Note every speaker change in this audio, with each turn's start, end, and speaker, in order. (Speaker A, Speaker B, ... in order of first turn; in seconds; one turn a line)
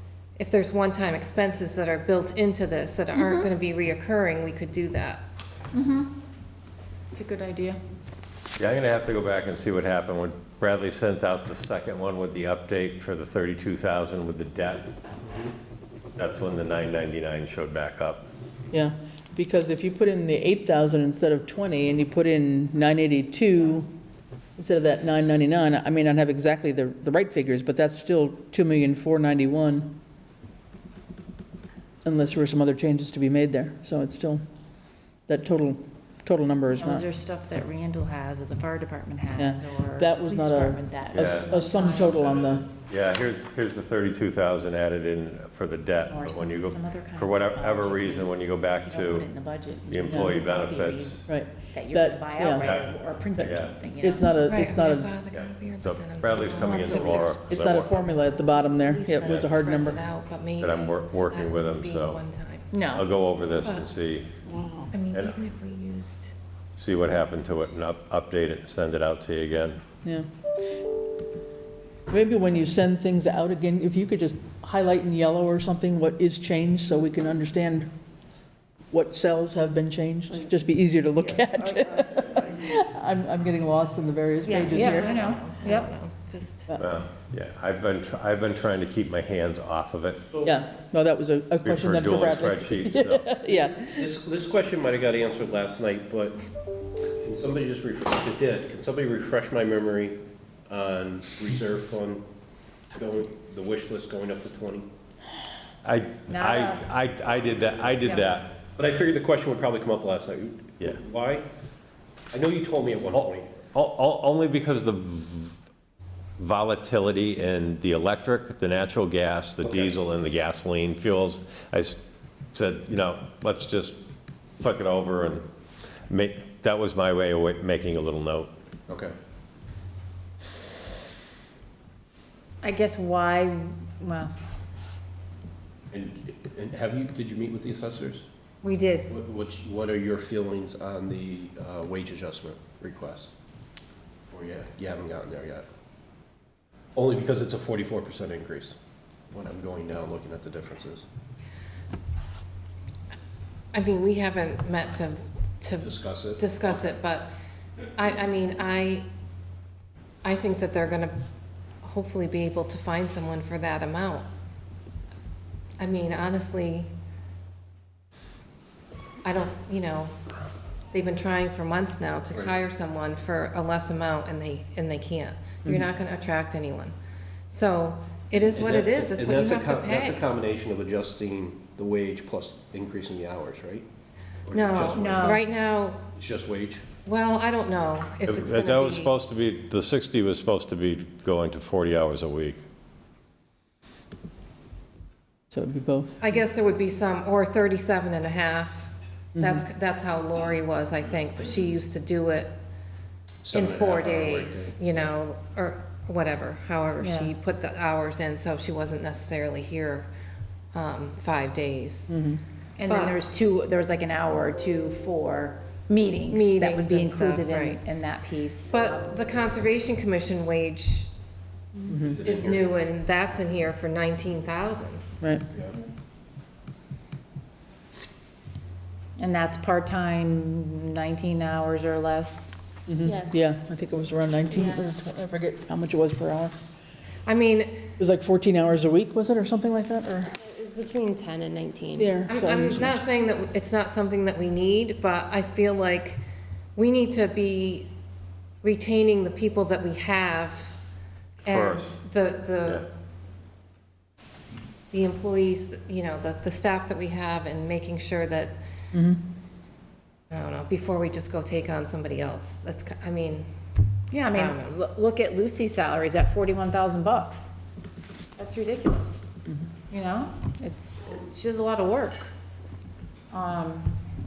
Speaker A: 0.4-5.2
Speaker B: 5.7-6.1
Speaker B: 7.1-7.8
Speaker C: 8.6-14.9
Speaker C: 16.2-18.2
Speaker D: 18.7-23.9
Speaker D: 24.6-30.0
Speaker D: 32.0-34.4
Speaker D: 35.3-37.1
Speaker B: 36.7-42.3
Speaker D: 39.3-42.6
Speaker C: 41.1-41.5
Speaker C: 42.7-49.3
Speaker B: 46.1-54.4
Speaker C: 49.9-51.3
Speaker D: 50.1-50.4
Speaker D: 51.3-52.7
Speaker C: 52.6-52.9
Speaker D: 53.4-55.1
Speaker C: 53.4-53.7
Speaker A: 54.4-62.7
Speaker C: 55.3-57.9
Speaker B: 56.6-57.4
Speaker D: 57.5-60.0
Speaker C: 60.6-62.2
Speaker B: 62.7-63.1
Speaker C: 62.9-64.3
Speaker A: 63.6-63.9
Speaker D: 64.5-64.8
Speaker A: 64.9-66.3
Speaker C: 66.8-69.8
Speaker D: 72.1-77.9
Speaker D: 78.9-85.2
Speaker B: 81.4-82.3
Speaker A: 84.5-86.8
Speaker B: 84.5-85.9
Speaker C: 86.8-90.3
Speaker D: 90.4-94.1
Speaker C: 91.6-93.3
Speaker E: 93.9-96.4
Speaker E: 97.2-102.2
Speaker E: 102.9-104.9
Speaker C: 105.8-108.6
Speaker B: 106.3-107.0
Speaker B: 108.0-108.4
Speaker E: 108.6-111.5
Speaker E: 112.3-113.6
Speaker C: 113.1-115.6
Speaker C: 116.4-122.0
Speaker E: 119.6-120.0
Speaker C: 122.5-124.0
Speaker C: 124.6-125.5
Speaker C: 126.1-128.5
Speaker E: 128.9-129.1
Speaker B: 132.6-134.3
Speaker E: 135.9-138.3
Speaker B: 138.6-139.1
Speaker E: 139.1-143.3
Speaker E: 144.3-145.7
Speaker E: 147.0-148.8
Speaker E: 149.3-151.1
Speaker A: 153.7-157.3
Speaker E: 155.8-156.8
Speaker A: 158.0-159.1
Speaker A: 160.2-161.1
Speaker A: 161.8-164.3
Speaker A: 165.8-166.9
Speaker A: 169.2-170.2
Speaker A: 170.9-176.9
Speaker A: 177.5-180.3
Speaker E: 178.4-183.9
Speaker E: 184.5-185.4
Speaker A: 184.5-186.0
Speaker B: 184.9-185.4
Speaker E: 186.2-186.8
Speaker A: 187.1-189.1
Speaker C: 188.2-192.6
Speaker D: 195.5-196.2
Speaker A: 196.2-202.5
Speaker D: 199.3-199.6
Speaker E: 203.4-204.8
Speaker A: 203.5-210.1
Speaker B: 207.0-207.3
Speaker A: 210.7-212.1
Speaker D: 212.1-212.4
Speaker B: 212.8-219.0
Speaker A: 212.8-213.2
Speaker A: 216.3-217.8
Speaker A: 218.7-221.1
Speaker D: 221.9-222.2
Speaker E: 222.0-222.7
Speaker A: 222.2-225.0
Speaker B: 229.2-232.6
Speaker D: 232.9-236.5
Speaker F: 233.1-233.4
Speaker A: 237.3-237.8
Speaker D: 238.0-240.3
Speaker F: 240.4-242.1
Speaker B: 241.3-241.7
Speaker D: 242.0-243.0
Speaker A: 242.3-246.2
Speaker A: 246.8-247.9
Speaker A: 248.6-250.8
Speaker A: 251.4-252.8
Speaker C: 251.5-251.9
Speaker A: 254.9-258.6
Speaker D: 258.9-259.2
Speaker A: 260.3-263.5
Speaker B: 264.1-267.5
Speaker A: 264.3-264.8
Speaker B: 268.4-269.2
Speaker B: 269.9-272.3
Speaker B: 273.3-273.9